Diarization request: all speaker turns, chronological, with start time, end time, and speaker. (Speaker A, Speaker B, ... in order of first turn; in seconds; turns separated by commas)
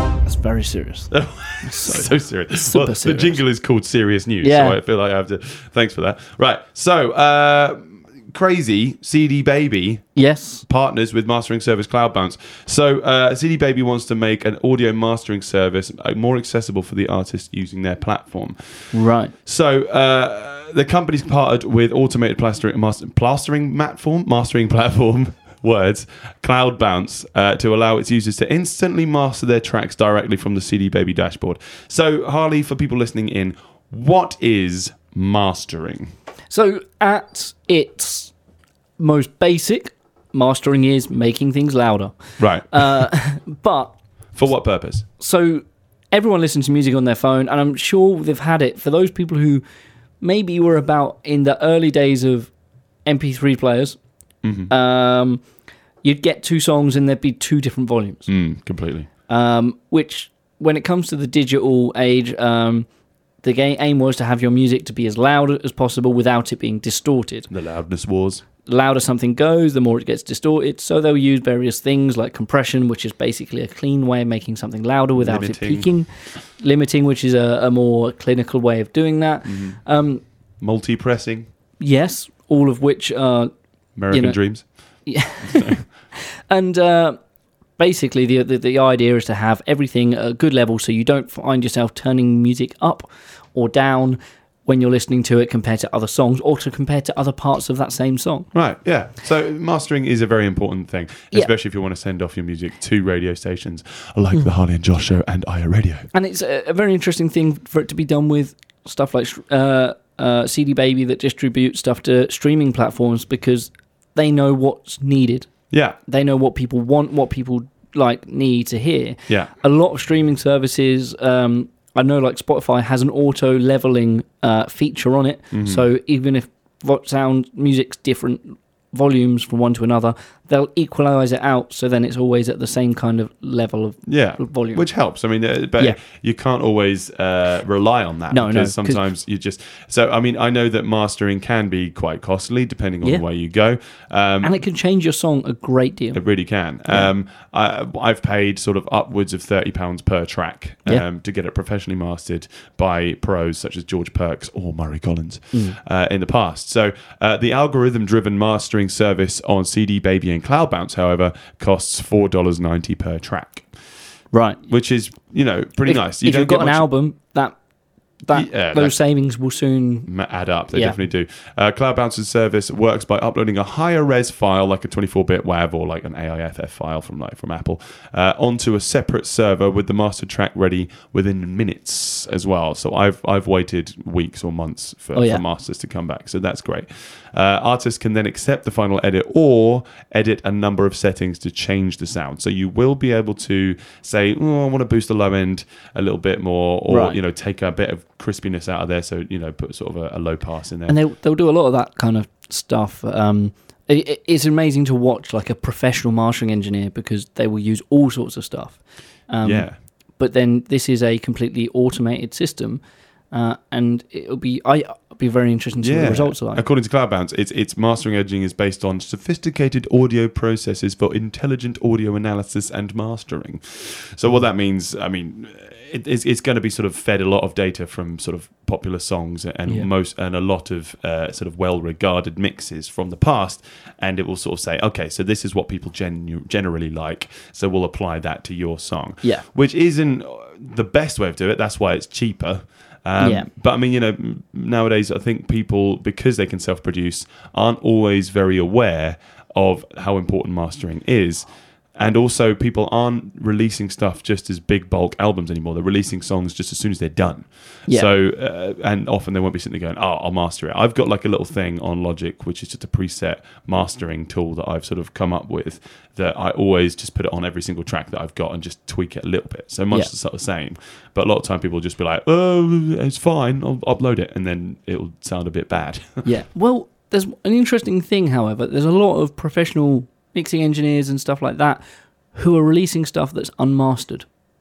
Speaker A: 0.2-3.4, Speaker B: 1.1-10.1, Speaker A: 4.4-4.8, Speaker A: 10.2-10.6, Speaker B: 10.6-18.9, Speaker A: 18.9-19.3, Speaker B: 19.4-36.1, Speaker A: 36.5-38.3, Speaker A: 39.0-42.2, Speaker B: 42.4-43.1, Speaker A: 42.7-43.9, Speaker B: 44.3-45.0, Speaker A: 45.2-49.6, Speaker A: 50.2-52.5, Speaker A: 53.0-54.0, Speaker B: 54.4-54.7, Speaker A: 54.7-55.4, Speaker A: 56.0-58.3, Speaker B: 58.3-59.1, Speaker A: 59.3-62.9, Speaker A: 63.4-67.5, Speaker B: 67.5-68.4, Speaker A: 68.7-80.2, Speaker B: 75.1-75.9, Speaker B: 79.5-79.8, Speaker B: 80.6-81.5, Speaker A: 81.8-83.5, Speaker B: 84.0-84.6, Speaker A: 84.1-84.4, Speaker A: 85.0-87.2, Speaker B: 85.4-85.8, Speaker A: 87.8-98.5, Speaker B: 98.5-106.1, Speaker A: 106.1-115.5, Speaker B: 115.7-116.0, Speaker A: 116.1-134.8, Speaker B: 125.5-125.8, Speaker B: 134.1-144.6, Speaker A: 138.3-139.0, Speaker A: 144.4-146.2, Speaker B: 146.1-163.7, Speaker A: 164.3-164.6, Speaker B: 164.6-166.8, Speaker A: 165.8-167.6, Speaker A: 168.2-170.1, Speaker B: 168.3-168.9, Speaker B: 170.1-201.0, Speaker A: 170.7-171.0, Speaker A: 185.1-185.4, Speaker A: 196.9-197.2, Speaker A: 200.9-209.7, Speaker B: 209.4-209.8, Speaker A: 210.2-212.8, Speaker A: 213.3-216.6, Speaker B: 215.8-276.3, Speaker A: 243.2-243.5, Speaker A: 276.2-281.8, Speaker A: 282.3-284.2